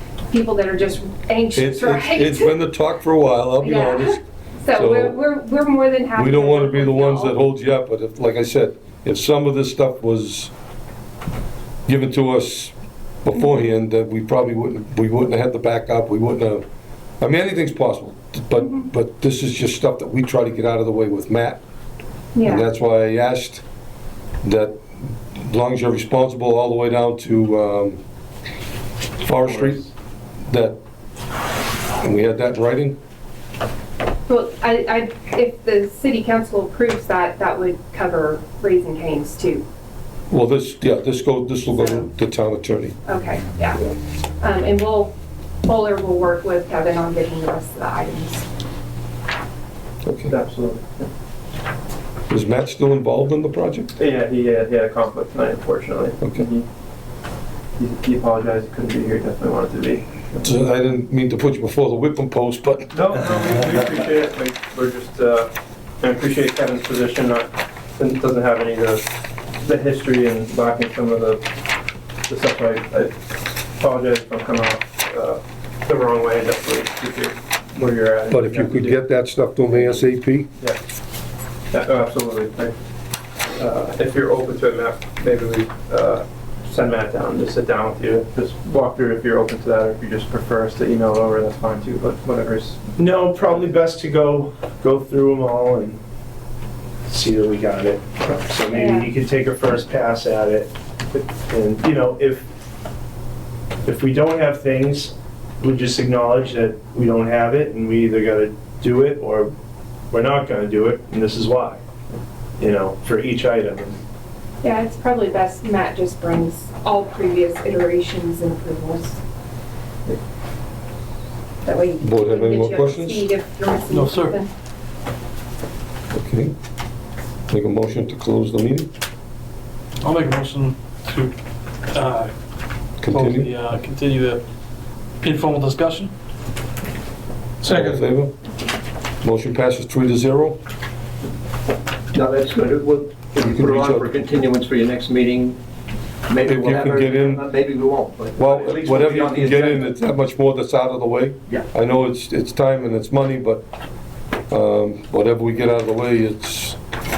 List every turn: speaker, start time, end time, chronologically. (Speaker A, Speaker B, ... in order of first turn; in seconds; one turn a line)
Speaker A: 0.3-2.6
Speaker B: 1.6-4.2
Speaker A: 3.6-7.3
Speaker B: 4.7-5.2
Speaker B: 6.2-10.5
Speaker B: 11.9-16.6
Speaker B: 17.2-21.6
Speaker A: 22.4-22.7
Speaker B: 22.4-23.6
Speaker B: 24.4-28.0
Speaker B: 29.2-29.9
Speaker C: 29.5-29.8
Speaker B: 30.5-30.8
Speaker B: 32.0-33.0
Speaker A: 34.3-39.6
Speaker B: 40.3-43.0
Speaker A: 41.7-42.1
Speaker A: 43.1-45.1
Speaker A: 45.6-48.5
Speaker B: 50.0-50.3
Speaker C: 50.3-51.1
Speaker B: 52.3-53.9
Speaker C: 54.0-56.7
Speaker C: 57.8-60.6
Speaker B: 60.4-63.0
Speaker C: 62.9-69.1
Speaker C: 69.6-71.4
Speaker C: 72.3-73.2
Speaker C: 73.8-79.0
Speaker B: 78.3-80.5
Speaker C: 79.7-80.1
Speaker C: 81.7-82.8
Speaker C: 83.6-92.9
Speaker D: 93.0-96.0
Speaker D: 97.1-102.5
Speaker A: 98.7-99.1
Speaker D: 103.8-109.5
Speaker D: 110.1-111.8
Speaker D: 112.6-114.0
Speaker A: 114.6-119.2
Speaker A: 121.6-124.5
Speaker B: 122.0-123.3
Speaker E: 123.9-124.3
Speaker B: 126.1-126.5
Speaker B: 127.5-128.9
Speaker E: 130.0-131.3
Speaker E: 131.9-132.3
Speaker B: 133.0-133.5
Speaker E: 133.1-134.4
Speaker E: 135.2-136.1
Speaker B: 137.6-138.3
Speaker E: 137.7-138.0
Speaker B: 139.2-140.6
Speaker F: 142.1-145.6
Speaker B: 143.4-144.1
Speaker F: 146.3-149.9
Speaker B: 146.4-147.4
Speaker B: 148.4-153.7
Speaker B: 154.5-156.8